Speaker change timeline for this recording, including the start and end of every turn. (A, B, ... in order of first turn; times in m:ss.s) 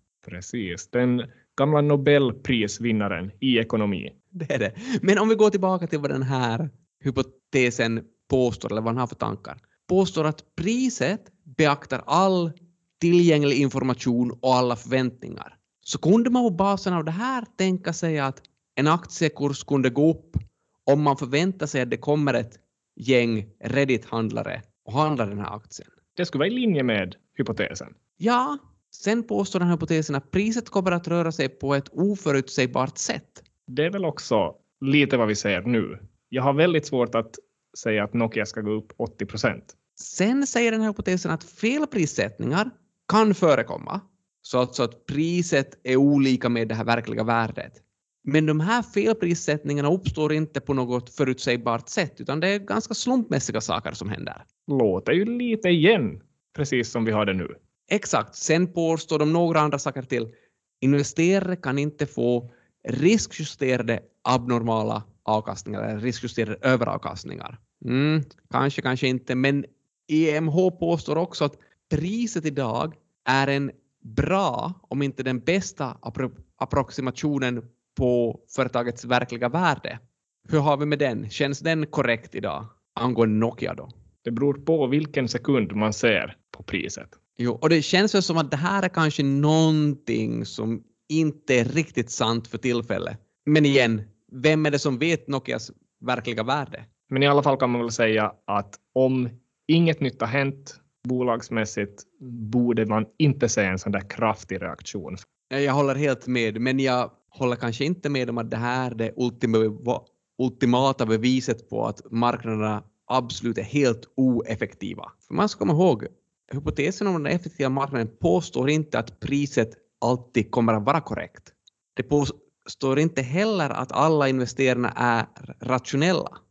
0:00.2-0:04.1 A
0:04.3-0:25.9 B
0:26.2-0:28.0 A
0:28.2-0:33.4 B
0:33.7-0:39.7 A
0:40.0-0:54.4 B
0:54.7-0:57.6 A
0:57.9-1:23.9 B
1:24.2-1:27.2 A
1:27.4-1:36.9 B
1:37.1-1:45.2 A
1:45.5-2:06.4 B